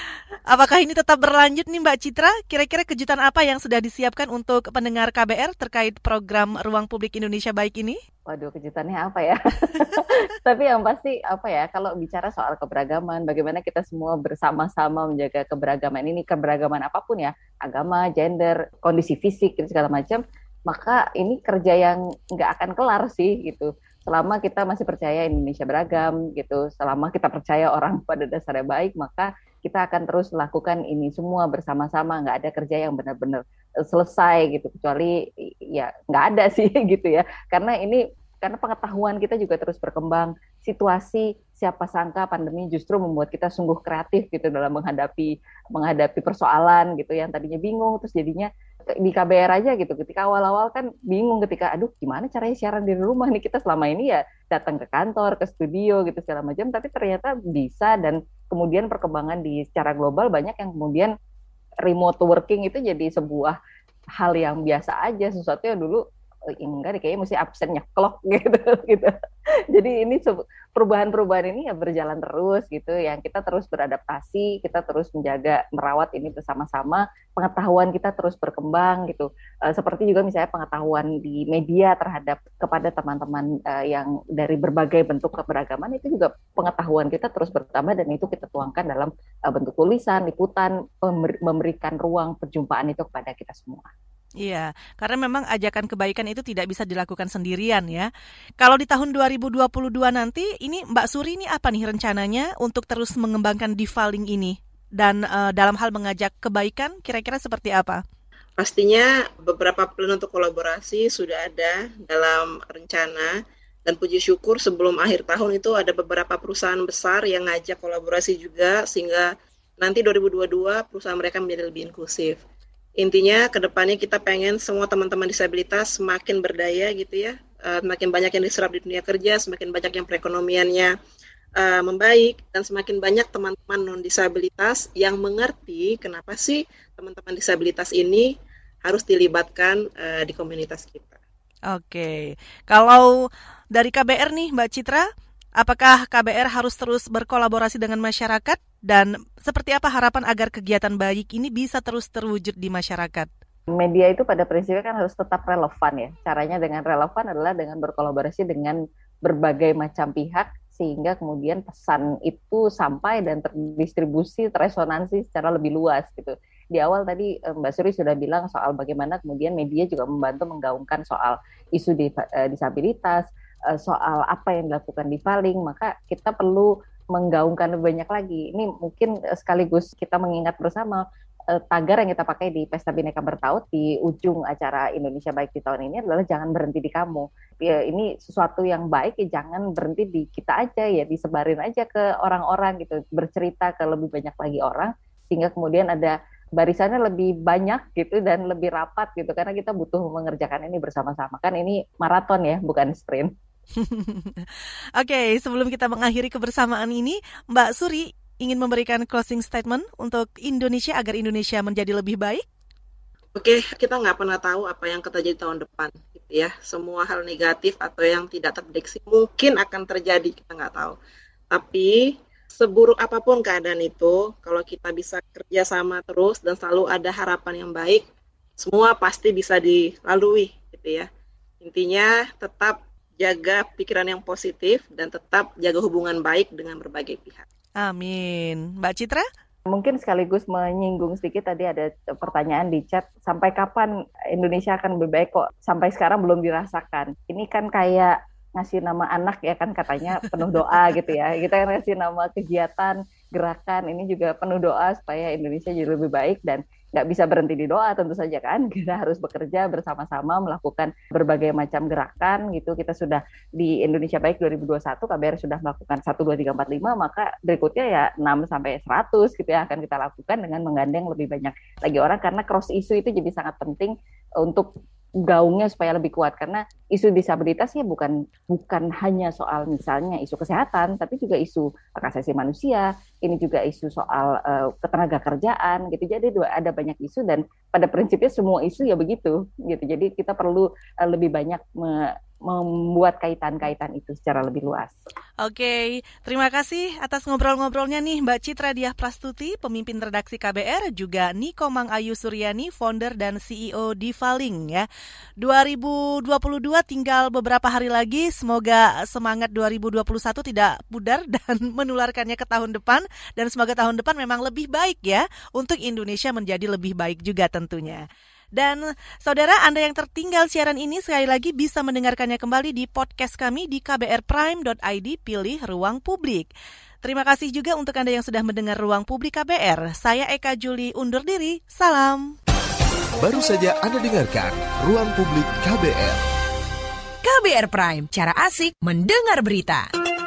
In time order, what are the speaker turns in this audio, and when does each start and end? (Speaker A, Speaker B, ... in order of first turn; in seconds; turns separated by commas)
Speaker A: 0.5-8.0, Speaker B: 8.3-61.1, Speaker B: 61.8-63.6, Speaker B: 64.2-66.0, Speaker B: 66.5-69.1, Speaker B: 69.7-93.9, Speaker A: 94.4-98.1, Speaker A: 98.6-108.0, Speaker C: 108.6-122.4, Speaker C: 123.0-130.9, Speaker C: 131.6-138.3, Speaker C: 138.8-141.2, Speaker A: 141.7-143.2, Speaker A: 143.7-145.1, Speaker A: 145.6-153.3, Speaker B: 153.7-203.3, Speaker A: 203.8-204.5, Speaker A: 205.0-212.4, Speaker C: 213.4-221.0, Speaker C: 221.5-228.1, Speaker C: 228.6-231.1, Speaker C: 231.6-237.5, Speaker A: 237.8-239.3, Speaker B: 239.7-274.7, Speaker B: 275.2-295.0, Speaker A: 295.4-304.9, Speaker A: 305.4-318.0, Speaker A: 318.6-326.5, Speaker A: 327.0-332.4, Speaker D: 333.2-336.2, Speaker E: 337.2-339.9